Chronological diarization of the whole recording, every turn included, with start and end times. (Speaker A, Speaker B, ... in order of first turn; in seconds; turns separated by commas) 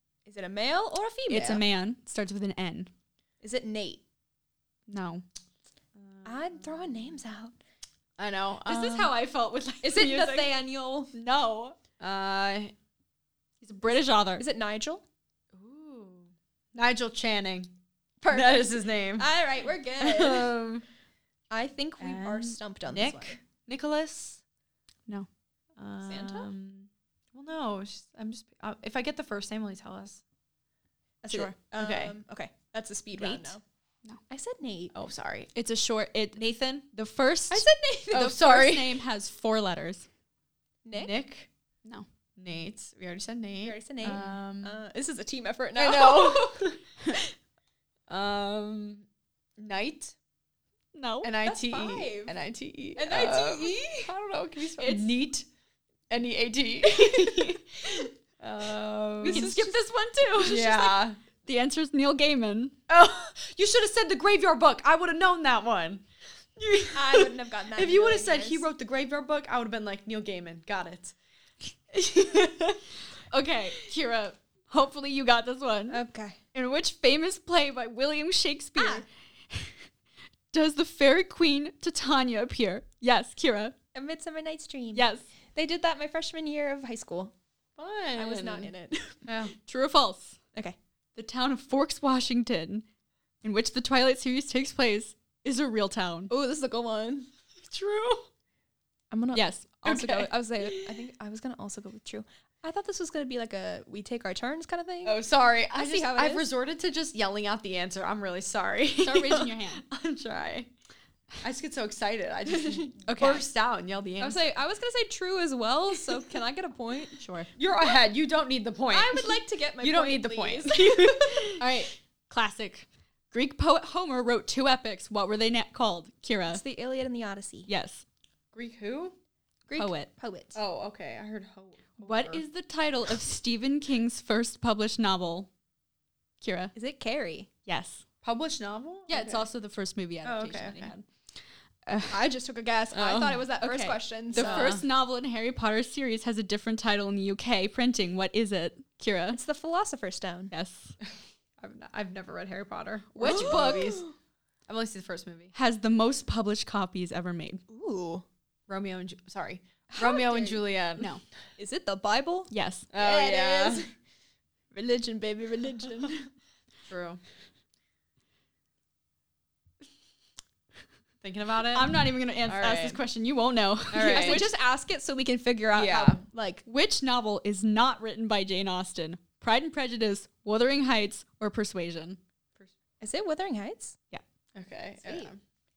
Speaker A: 0.3-1.6, Speaker B: 1.3-2.9, Speaker A: 3.4-4.0, Speaker B: 4.9-5.2, Speaker C: 6.0-7.2, Speaker A: 6.2-7.6, Speaker C: 8.2-9.2, Speaker B: 8.7-10.5, Speaker A: 9.8-11.1, Speaker B: 11.1-11.8, Speaker C: 12.0-12.7, Speaker B: 13.6-14.4, Speaker A: 14.4-15.0, Speaker C: 15.5-17.7, Speaker A: 18.2-20.6, Speaker C: 18.3-19.3, Speaker C: 20.0-20.9, Speaker A: 21.5-23.4, Speaker C: 22.0-24.4, Speaker C: 25.8-30.2, Speaker A: 26.0-26.5, Speaker A: 31.2-33.6, Speaker C: 31.7-32.1, Speaker B: 33.2-34.2, Speaker A: 34.3-35.0, Speaker C: 34.9-35.5, Speaker B: 35.5-36.4, Speaker C: 36.4-36.9, Speaker B: 36.9-40.1, Speaker A: 37.5-38.4, Speaker C: 38.1-39.0, Speaker A: 40.9-41.1, Speaker C: 41.0-41.5, Speaker C: 42.4-44.8, Speaker A: 43.6-46.6, Speaker C: 45.8-47.2, Speaker C: 48.1-49.1, Speaker C: 49.6-50.1, Speaker B: 51.0-51.3, Speaker C: 51.2-55.5, Speaker A: 51.4-52.4, Speaker A: 53.0-54.1, Speaker B: 54.8-55.1, Speaker C: 56.1-59.5, Speaker A: 59.2-59.8, Speaker B: 59.2-62.8, Speaker C: 60.4-61.2, Speaker C: 62.9-66.0, Speaker C: 66.6-71.2, Speaker A: 66.9-68.7, Speaker C: 71.9-72.8, Speaker B: 73.3-76.0, Speaker A: 75.9-76.4, Speaker B: 76.5-79.8, Speaker A: 78.8-79.0, Speaker B: 80.5-83.8, Speaker A: 83.9-87.3, Speaker B: 85.0-85.2, Speaker C: 87.8-88.7, Speaker A: 88.2-89.2, Speaker C: 89.2-89.5, Speaker B: 89.6-90.4, Speaker B: 91.2-92.8, Speaker B: 93.4-96.3, Speaker A: 96.3-97.3, Speaker C: 97.6-98.3, Speaker A: 99.1-105.2, Speaker B: 99.3-100.3, Speaker C: 100.6-100.9, Speaker C: 105.0-110.7, Speaker A: 105.7-106.5, Speaker B: 109.0-109.8, Speaker C: 111.4-114.4, Speaker A: 112.5-112.9, Speaker B: 113.0-113.5, Speaker A: 114.2-117.2, Speaker B: 117.2-117.5, Speaker C: 117.6-121.7, Speaker A: 118.9-121.5, Speaker B: 121.6-126.6, Speaker A: 126.5-127.7, Speaker B: 127.7-128.0, Speaker C: 128.5-129.2, Speaker A: 129.7-130.6, Speaker B: 129.8-130.1, Speaker C: 130.6-132.4, Speaker B: 132.0-135.5, Speaker B: 136.4-136.7, Speaker A: 136.8-137.5, Speaker B: 137.7-138.0, Speaker C: 138.2-139.4, Speaker B: 139.1-141.0, Speaker C: 140.2-140.9, Speaker A: 142.1-144.8, Speaker C: 142.9-143.5, Speaker B: 143.6-149.4, Speaker C: 144.3-144.8, Speaker A: 149.3-150.5, Speaker B: 150.5-150.9, Speaker C: 151.6-154.1, Speaker B: 153.2-154.0, Speaker A: 153.2-154.2, Speaker C: 154.7-155.5, Speaker B: 155.5-157.6, Speaker A: 157.7-158.2, Speaker C: 158.7-161.1, Speaker A: 159.9-160.7, Speaker A: 161.6-163.9, Speaker B: 162.5-162.9, Speaker C: 162.9-163.8, Speaker A: 164.7-166.3, Speaker C: 166.9-167.2, Speaker C: 171.2-173.0, Speaker B: 171.7-174.5, Speaker C: 173.9-174.4, Speaker A: 174.0-176.6, Speaker C: 175.8-176.2, Speaker B: 176.7-182.2, Speaker A: 183.0-184.0, Speaker C: 184.6-185.4, Speaker A: 185.0-185.3